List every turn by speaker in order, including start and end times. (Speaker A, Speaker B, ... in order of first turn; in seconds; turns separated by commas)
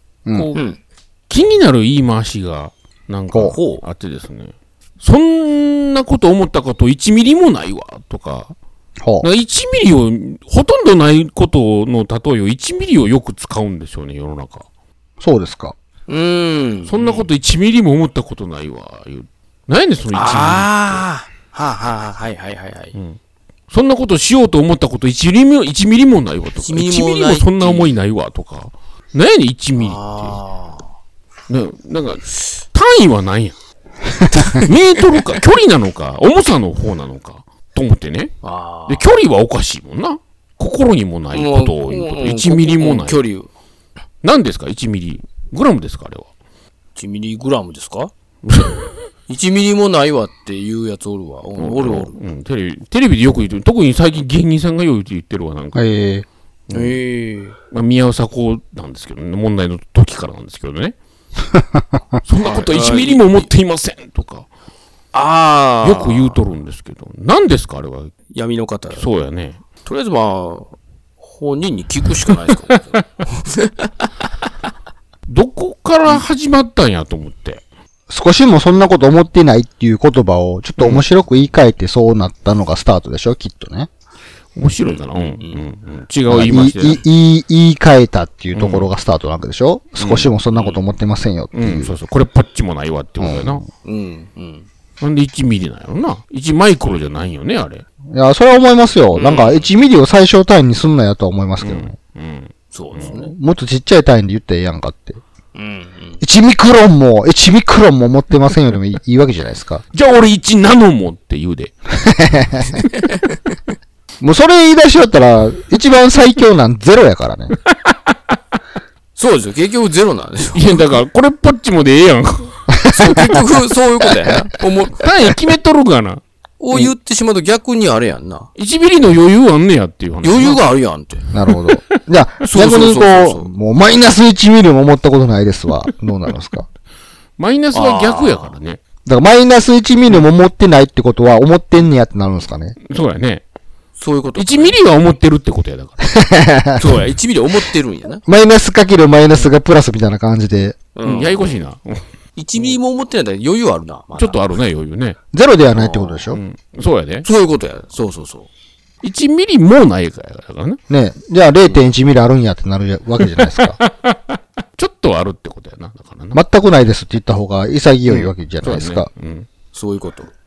Speaker A: 0.2-0.5, Speaker B: 0.3-0.6, Speaker C: 0.5-0.8, Speaker B: 1.3-8.5, Speaker C: 3.5-3.8, Speaker A: 9.0-9.3, Speaker B: 9.2-14.6, Speaker A: 15.2-15.7, Speaker C: 16.1-17.3, Speaker B: 16.9-21.0, Speaker C: 20.1-22.9, Speaker B: 22.9-23.2, Speaker B: 23.7-30.4, Speaker C: 26.6-27.9, Speaker C: 29.8-30.9, Speaker B: 31.5-33.5, Speaker B: 34.3-38.3, Speaker C: 38.4-39.0, Speaker B: 38.9-43.2, Speaker C: 41.3-43.5, Speaker B: 44.2-46.2, Speaker C: 47.0-48.1, Speaker B: 48.4-48.9, Speaker C: 49.3-52.1, Speaker B: 51.6-55.8, Speaker A: 55.7-56.2, Speaker B: 56.7-57.0, Speaker C: 56.7-57.5, Speaker B: 57.7-60.9, Speaker B: 62.2-64.5, Speaker C: 62.4-63.5, Speaker C: 65.1-66.4, Speaker B: 65.8-68.1, Speaker C: 68.3-69.1, Speaker B: 69.0-69.6, Speaker C: 69.8-74.1, Speaker B: 75.3-77.6, Speaker A: 78.1-83.9, Speaker B: 80.8-81.0, Speaker B: 84.5-87.0, Speaker C: 84.8-85.7, Speaker A: 86.3-92.0, Speaker B: 88.5-88.9, Speaker B: 90.0-90.3, Speaker B: 91.5-93.6, Speaker A: 93.2-93.6, Speaker C: 93.8-94.7, Speaker B: 95.0-97.8, Speaker A: 98.1-101.9, Speaker C: 99.1-99.7, Speaker B: 101.6-103.1, Speaker C: 102.7-103.3, Speaker A: 103.0-105.2, Speaker C: 105.5-106.2, Speaker A: 106.2-109.8, Speaker B: 109.9-111.7, Speaker A: 112.0-112.8, Speaker A: 114.2-117.5, Speaker C: 119.2-120.8, Speaker B: 120.5-122.6, Speaker C: 122.9-125.1, Speaker B: 125.0-126.2, Speaker C: 126.6-128.5, Speaker B: 128.6-130.6, Speaker C: 130.2-131.2, Speaker A: 131.3-136.7, Speaker B: 131.3-131.9, Speaker C: 132.4-133.5, Speaker B: 137.4-138.8, Speaker C: 137.7-138.5, Speaker A: 139.0-142.8, Speaker B: 142.8-143.4, Speaker C: 144.0-144.8, Speaker B: 144.3-146.0, Speaker A: 146.0-146.9, Speaker C: 146.8-148.2, Speaker A: 148.2-150.8, Speaker C: 150.9-151.6, Speaker B: 151.0-152.0, Speaker C: 152.3-154.4, Speaker B: 154.2-155.2, Speaker A: 155.3-156.4, Speaker C: 155.7-156.2, Speaker B: 156.3-157.2, Speaker C: 157.2-158.5, Speaker B: 159.0-160.8, Speaker A: 160.9-163.8, Speaker B: 163.2-166.4, Speaker A: 166.3-169.1, Speaker B: 168.1-169.5, Speaker C: 169.7-170.3